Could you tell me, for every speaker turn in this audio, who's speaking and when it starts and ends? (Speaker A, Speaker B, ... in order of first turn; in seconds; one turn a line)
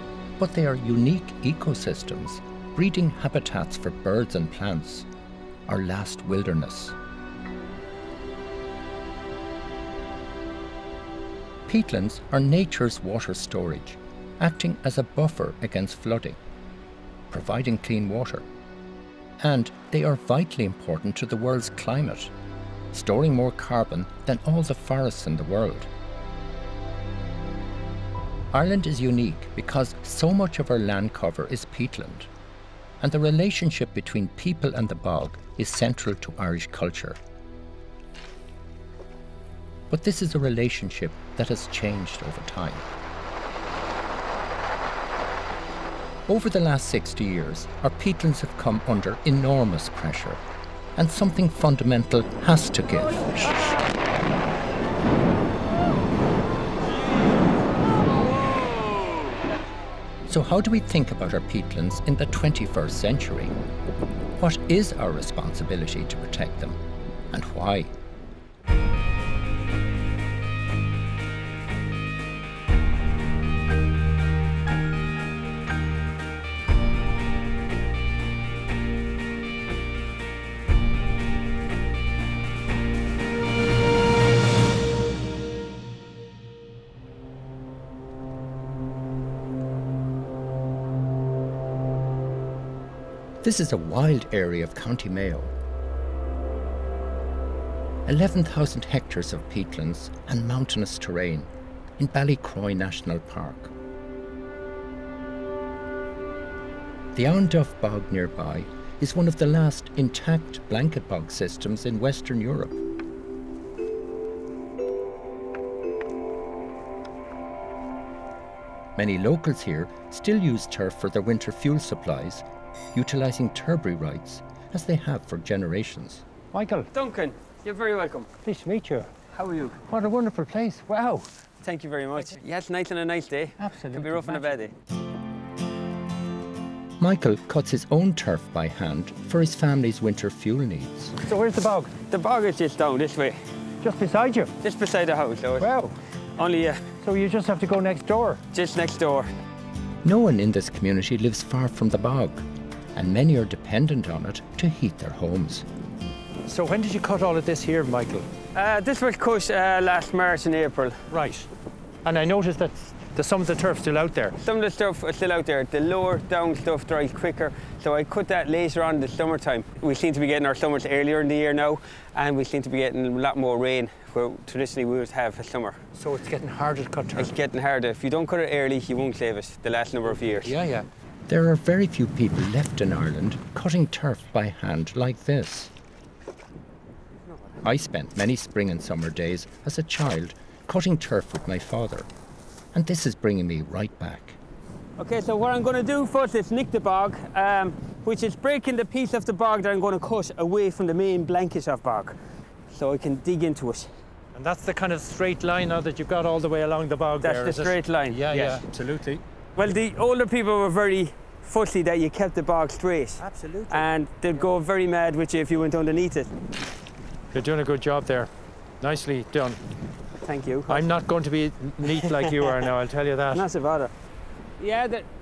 Speaker A: 0.4-5.1
Speaker A: 5.7-7.0
Speaker A: 11.7-16.4
Speaker A: 17.3-18.4
Speaker A: 19.4-22.3
Speaker A: 22.9-25.9
Speaker A: 28.5-32.3
Speaker A: 33.0-37.2
Speaker A: 39.9-42.9
Speaker A: 46.3-50.4
Speaker A: 51.0-53.5
Speaker A: 60.3-63.6
Speaker A: 64.4-66.8
Speaker A: 67.3-67.9
Speaker A: 93.4-95.5
Speaker A: 98.1-103.7
Speaker A: 107.2-112.8
Speaker A: 119.0-126.2
Speaker B: 126.5-126.9
Speaker C: 126.9-128.3
Speaker B: 128.4-129.1
Speaker C: 129.3-129.8
Speaker B: 129.9-131.3
Speaker C: 131.6-134.7
Speaker B: 133.6-134.6
Speaker A: 137.0-141.2
Speaker B: 141.2-141.9
Speaker C: 142.1-143.4
Speaker B: 143.8-144.5
Speaker C: 144.6-145.8
Speaker B: 145.6-145.9
Speaker C: 146.4-146.8
Speaker B: 147.0-148.4
Speaker C: 148.5-149.3
Speaker A: 150.0-152.4
Speaker A: 152.9-155.7
Speaker B: 156.5-158.3
Speaker C: 158.5-161.0
Speaker B: 161.1-161.5
Speaker B: 162.0-164.4
Speaker C: 164.4-175.8
Speaker B: 175.9-177.3
Speaker C: 177.2-180.6
Speaker B: 180.4-180.9
Speaker A: 181.3-185.7
Speaker A: 187.6-192.1
Speaker A: 192.7-194.4
Speaker C: 195.0-202.2
Speaker C: 202.7-203.9
Speaker B: 204.3-209.2
Speaker C: 207.2-208.6
Speaker C: 209.6-216.3
Speaker B: 213.2-213.8
Speaker B: 217.3-218.3
Speaker B: 218.8-219.6
Speaker C: 220.2-220.9
Speaker B: 220.7-223.4
Speaker C: 222.0-222.3
Speaker C: 223.3-223.9
Speaker C: 224.6-225.1